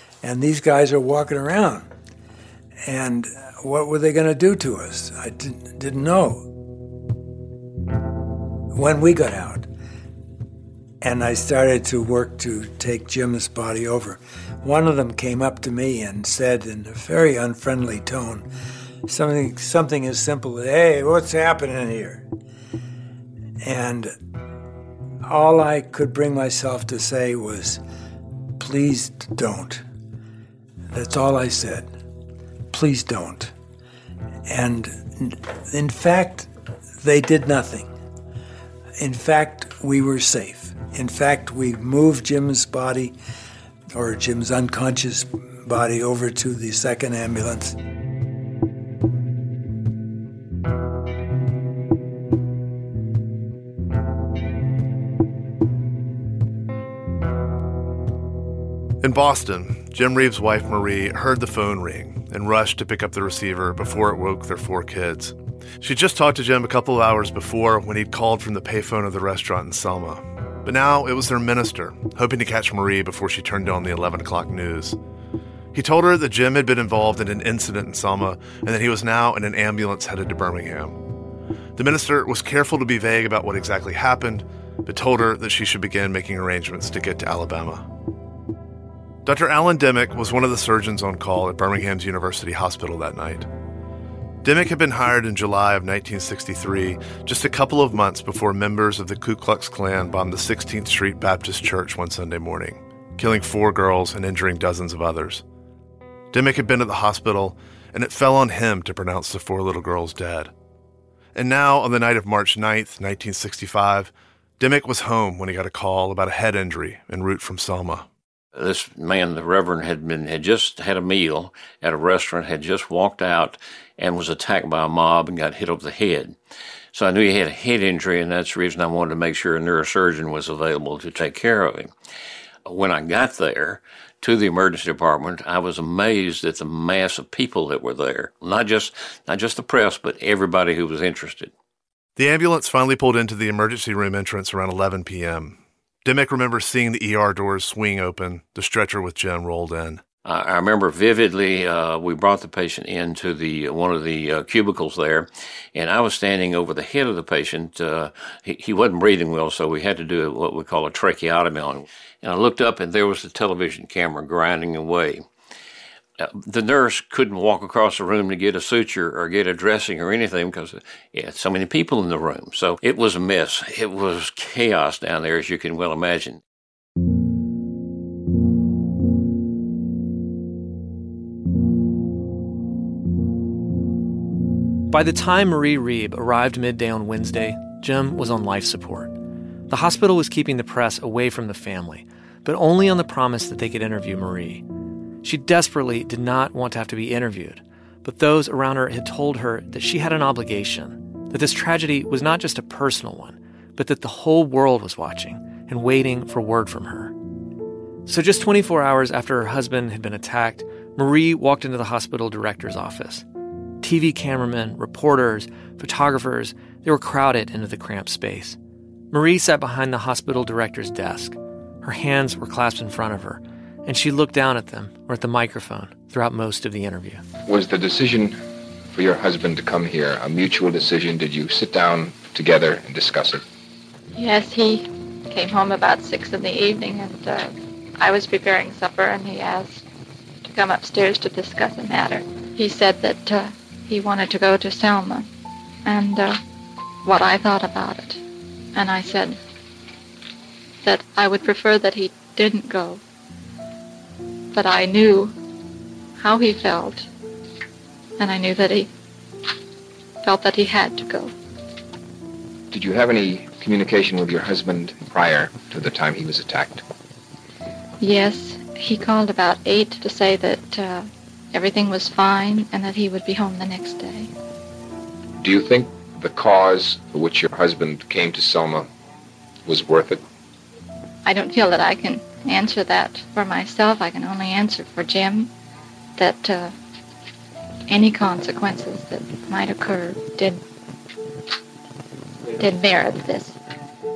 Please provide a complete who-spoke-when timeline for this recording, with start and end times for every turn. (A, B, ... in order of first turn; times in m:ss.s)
0:00.2-0:01.9 A
0:02.8-0:06.5 A
0:08.7-0:09.7 A
0:11.0-0:18.5 A
0:19.0-0:22.2 A
0:23.6-0:24.1 A
0:25.2-0:27.8 A
0:28.6-0:29.8 A
0:30.9-0:31.9 A
0:32.7-0:33.5 A
0:34.5-0:36.5 A
0:37.0-0:37.9 A
0:39.0-0:43.2 A
0:43.9-0:47.8 A
0:59.0-1:15.0 B
1:15.7-1:21.0 B
1:21.8-1:27.8 B
1:29.2-1:33.5 B
1:34.4-1:45.4 B
1:46.3-1:50.5 B
1:51.3-1:58.0 B
1:58.5-2:06.4 C
2:06.9-2:11.9 C
2:12.6-2:21.5 C
2:22.2-2:30.0 B
2:30.2-2:45.3 C
2:46.2-2:56.4 C
3:04.9-3:14.6 D
3:15.2-3:27.1 D
3:28.0-3:33.2 D
3:33.8-3:38.6 D
3:39.1-3:47.2 D
3:47.5-3:48.4 E
3:48.9-3:53.4 E
3:54.2-3:59.8 F
4:00.4-4:05.3 F
4:05.8-4:06.4 F
4:07.0-4:08.2 F
4:08.7-4:09.4 F
4:10.8-4:13.0 F
4:14.5-4:15.3 F
4:16.2-4:17.1 F
4:18.2-4:18.9 F
4:20.2-4:21.3 F
4:22.7-4:26.8 E
4:28.0-4:34.3 F
4:35.4-4:38.9 E
4:39.6-4:40.2 E
4:41.2-4:45.5 F
4:46.2-4:46.8 F
4:47.9-4:50.6 F
4:52.6-4:53.6 F